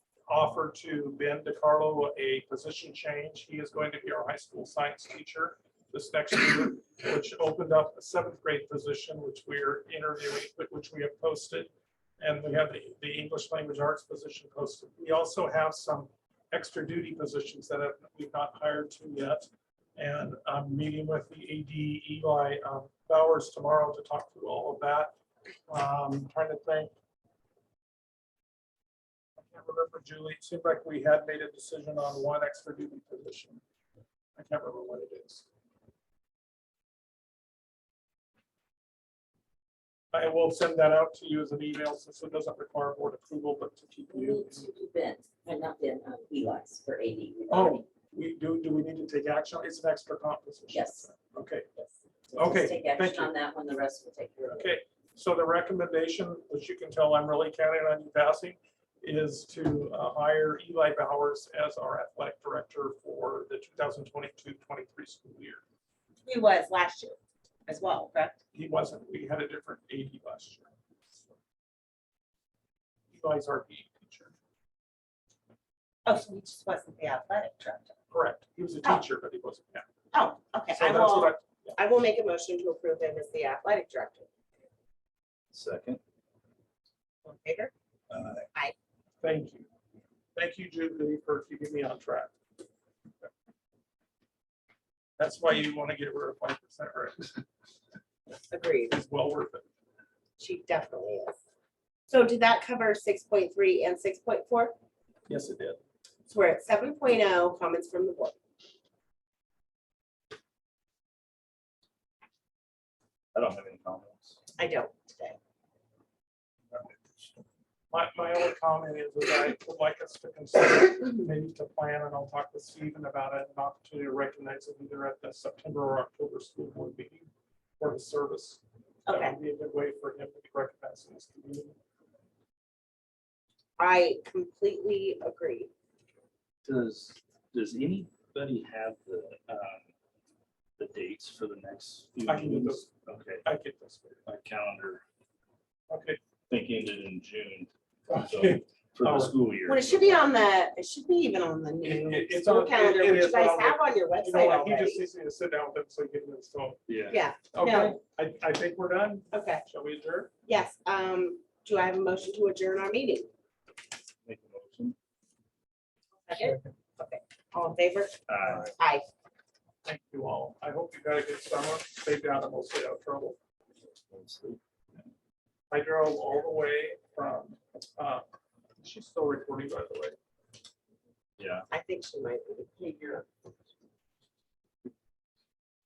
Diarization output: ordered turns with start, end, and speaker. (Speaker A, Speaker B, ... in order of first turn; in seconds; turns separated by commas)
Speaker A: 0.3-25.1, Speaker A: 25.7-26.9, Speaker A: 29.4-33.6, Speaker A: 34.4-35.5, Speaker A: 40.1-44.6, Speaker B: 44.1-47.9, Speaker A: 47.5-51.7, Speaker B: 50.7-51.1, Speaker B: 51.8-54.7, Speaker A: 52.4-53.3, Speaker A: 54.5-65.6, Speaker C: 66.3-68.4, Speaker A: 68.5-70.7, Speaker A: 73.1-74.3, Speaker C: 76.0-78.0, Speaker A: 78.1-79.8, Speaker C: 80.1-84.3, Speaker A: 80.7-81.8, Speaker D: 85.5-86.0, Speaker C: 87.2-87.7, Speaker D: 88.1-88.5, Speaker A: 89.2-89.7, Speaker A: 90.3-92.3, Speaker A: 95.2-97.4, Speaker C: 98.5-99.0, Speaker A: 98.9-99.7, Speaker C: 100.4-101.4, Speaker C: 102.1-104.7, Speaker A: 105.3-105.8, Speaker C: 106.3-108.3, Speaker D: 113.3-114.4, Speaker C: 114.6-115.4, Speaker D: 116.7-117.3, Speaker A: 117.9-127.3, Speaker A: 127.8-131.8, Speaker C: 129.1-129.4, Speaker C: 133.8-135.7, Speaker D: 136.6-139.9, Speaker D: 140.8-143.4, Speaker A: 142.2-144.2, Speaker D: 144.3-145.0, Speaker A: 145.9-146.2, Speaker D: 146.5-150.3, Speaker A: 148.1-149.3, Speaker C: 149.7-155.1, Speaker A: 151.8-156.8, Speaker D: 156.9-157.2, Speaker C: 157.1-158.0, Speaker A: 157.5-160.3, Speaker C: 159.3-159.6, Speaker C: 160.5-163.3, Speaker D: 164.2-165.0, Speaker C: 166.3-169.1, Speaker A: 166.4-166.7, Speaker D: 168.3-168.7, Speaker A: 169.8-173.4, Speaker D: 173.8-174.6, Speaker A: 175.7-178.2, Speaker A: 178.8-180.2, Speaker D: 181.4-181.7, Speaker C: 181.7-183.2